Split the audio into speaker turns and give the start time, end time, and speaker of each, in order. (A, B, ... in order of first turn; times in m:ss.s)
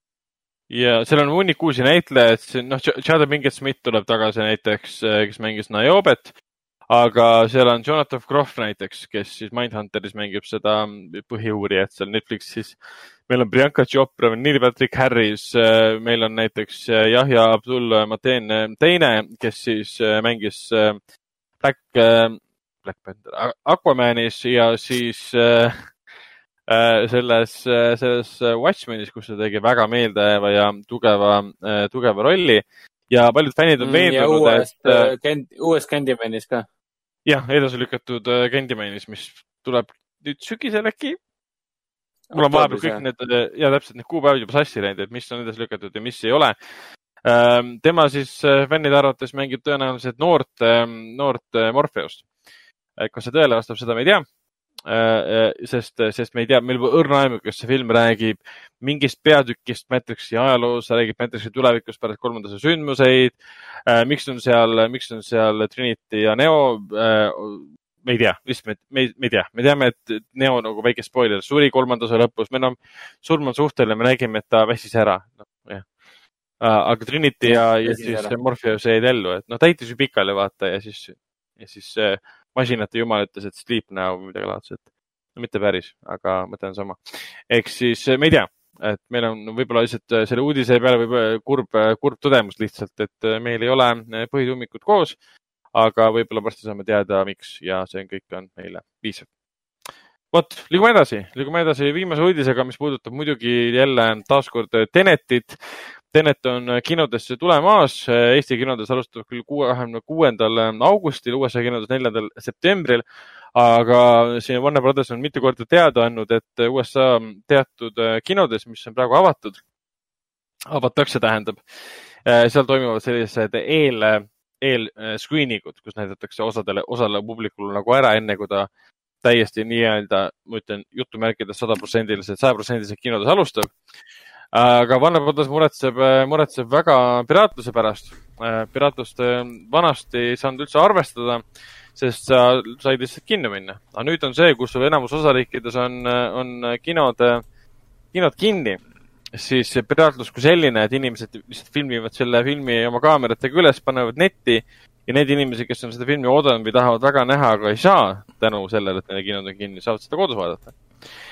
0:00.7-0:06.3 A
0:06.9-0:12.8 A
0:13.3-0:21.0 A
0:21.6-0:25.9 A
0:26.7-0:35.1 A
0:33.8-0:36.6 B
0:37.2-0:41.2 A
0:42.3-0:43.0 B
0:42.3-0:46.5 A
0:47.2-0:52.2 A
0:53.0-0:54.2 A
0:54.9-1:03.3 A
1:03.8-1:15.8 A
1:16.6-1:24.8 A
1:17.4-1:18.3 B
1:25.4-1:35.2 A
1:35.7-1:39.3 A
1:40.3-1:53.0 A
1:53.5-1:59.6 A
2:00.7-2:08.7 A
2:09.2-2:13.7 A
2:14.5-2:21.4 A
2:22.0-2:27.4 A
2:28.1-2:28.8 A
2:29.3-2:40.7 A